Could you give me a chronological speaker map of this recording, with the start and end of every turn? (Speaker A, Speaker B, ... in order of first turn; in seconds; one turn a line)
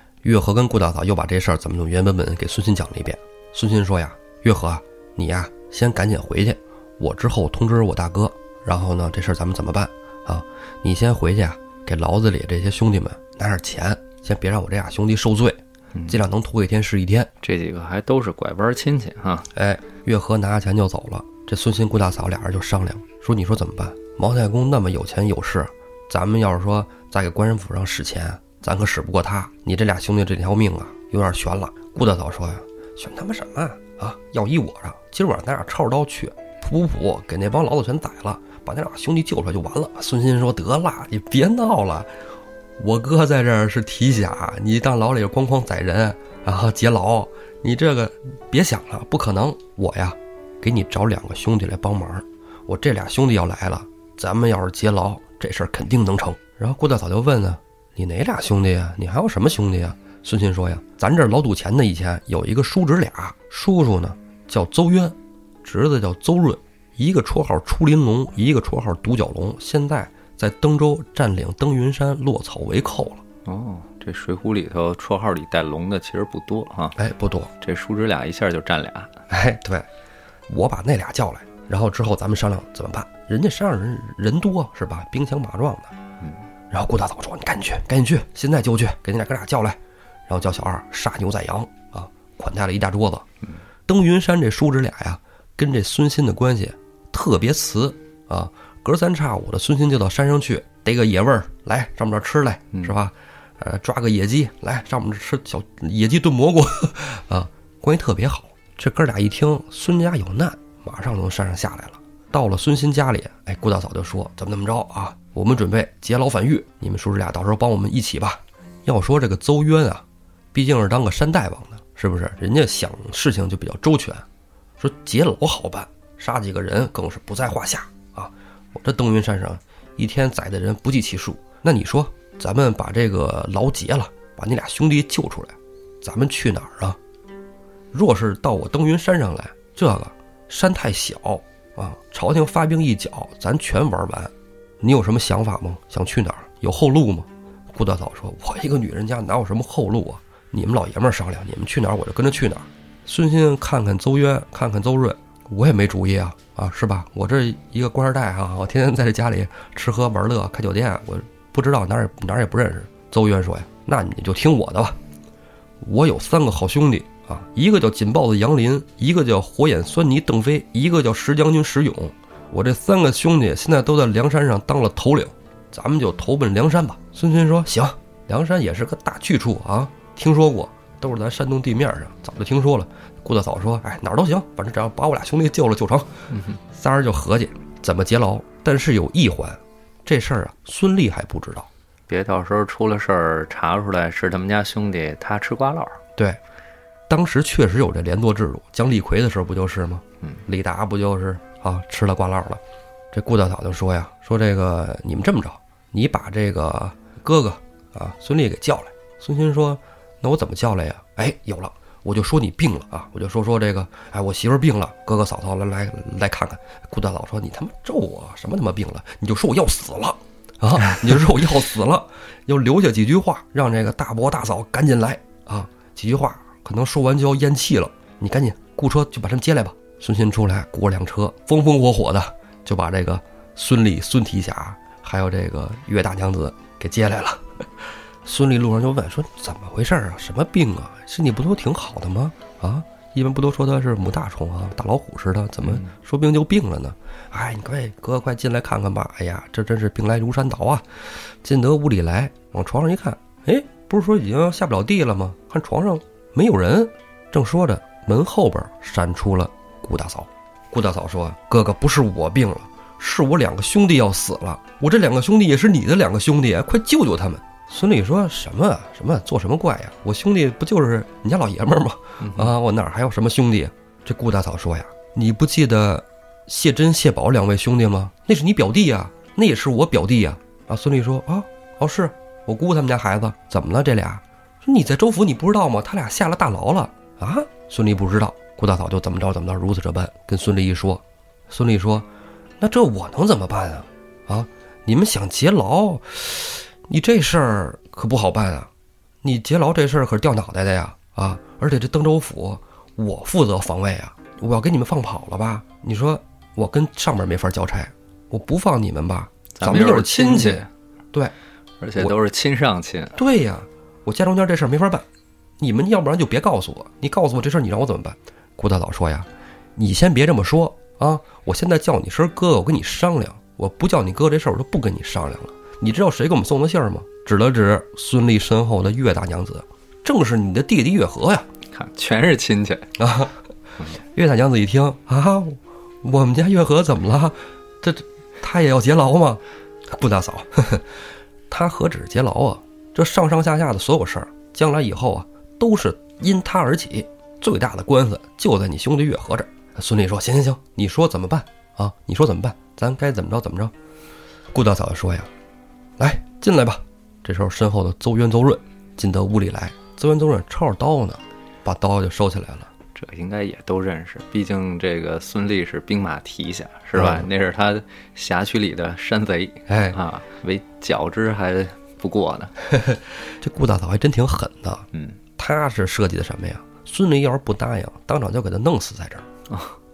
Speaker A: 0.2-17.3
Speaker B: 17.4-19.5
Speaker A: 19.5-42.1
Speaker A: 42.8-73.2
Speaker B: 73.5-77.0
Speaker A: 77.0-77.5
Speaker B: 77.6-79.1
Speaker A: 79.3-79.9
Speaker A: 80.5-85.9
Speaker A: 86.7-93.2
Speaker A: 93.9-124.2
Speaker A: 124.8-137.0
Speaker A: 137.9-165.0
Speaker A: 165.8-186.1
Speaker B: 186.3-186.6
Speaker A: 186.7-191.7
Speaker B: 192.1-196.0
Speaker A: 197.1-202.6
Speaker A: 203.1-237.6
Speaker A: 238.2-292.1
Speaker B: 245.6-245.9
Speaker B: 272.2-272.5
Speaker A: 292.6-298.7
Speaker A: 299.2-311.3
Speaker B: 309.6-310.7
Speaker B: 311.8-313.2
Speaker A: 313.1-315.1
Speaker A: 315.6-331.5
Speaker B: 331.7-332.9
Speaker A: 333.0-333.3
Speaker A: 334.0-340.9
Speaker A: 341.5-353.7
Speaker A: 354.5-355.3
Speaker A: 356.0-362.7
Speaker B: 362.9-372.5
Speaker A: 366.9-367.3
Speaker A: 369.7-370.0
Speaker A: 372.6-379.3
Speaker B: 379.5-379.8